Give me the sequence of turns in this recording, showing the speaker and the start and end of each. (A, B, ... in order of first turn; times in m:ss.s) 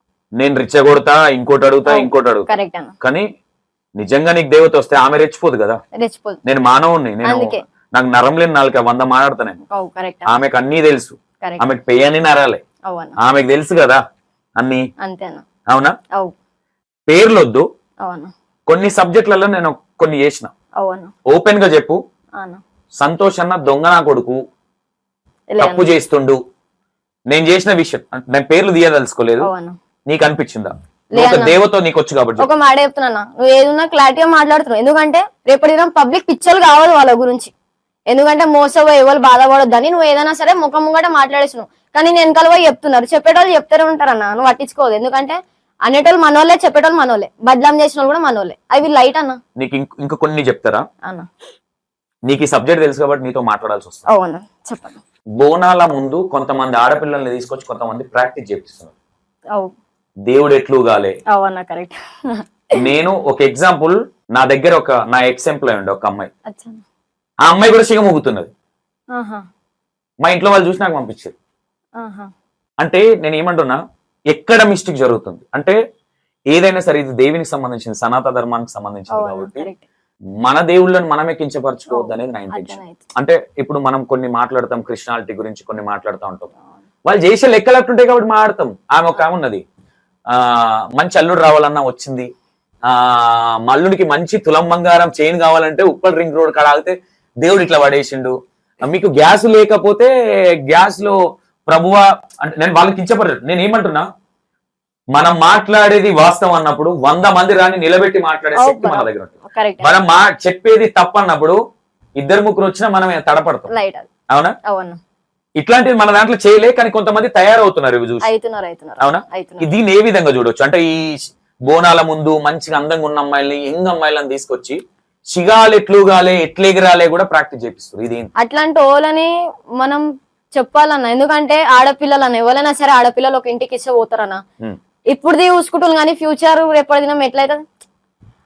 0:00.4-0:02.5 A
0:01.9-0:02.9 B
0:03.0-0:03.3 A
0:04.0-0:05.8 A
0:06.0-0:06.4 B
0:06.4-0:09.6 A
0:07.2-0:07.6 B
0:09.7-0:10.3 B
0:10.3-0:12.6 A
0:12.9-0:13.2 B
0:13.2-0:14.0 A
0:14.6-0:14.9 A
0:15.0-0:15.4 B
0:15.7-0:16.0 A
0:17.1-0:17.7 A
0:18.0-0:18.3 B
0:18.7-0:20.5 A
0:20.8-0:21.1 B
0:21.3-0:22.0 A
0:23.0-0:24.4 A
0:25.5-0:25.9 B
0:25.6-0:26.4 A
0:27.3-0:29.5 A
0:29.4-0:29.8 B
0:30.1-0:32.5 A
0:31.1-0:31.6 B
0:32.4-0:37.5 B
0:38.1-0:49.4 B
0:49.6-0:50.8 A
0:52.3-0:54.1 A
0:54.1-0:55.0 B
0:55.4-0:58.9 A
1:00.3-1:01.2 A
1:01.3-1:02.5 B
1:02.8-1:06.3 A
1:06.5-1:06.8 B
1:07.5-1:08.5 A
1:09.1-1:09.4 B
1:10.2-1:11.3 A
1:12.0-1:12.3 B
1:12.8-1:13.8 A
1:14.3-1:15.8 A
1:16.5-1:19.7 A
1:19.1-1:19.8 B
1:20.4-1:26.5 A
1:21.9-1:23.0 B
1:27.1-1:29.6 A
1:30.3-1:32.3 A
1:32.9-1:40.1 A
1:40.6-1:44.1 A
1:45.2-1:51.6 A
1:48.6-1:50.0 B
1:52.2-1:53.7 A
1:53.7-1:54.1 B
1:54.7-1:55.0 B
1:55.6-1:58.3 A
1:58.2-1:59.7 B
1:59.0-2:04.8 A
2:05.3-2:08.3 A
2:08.4-2:14.4 B
2:15.1-2:17.6 B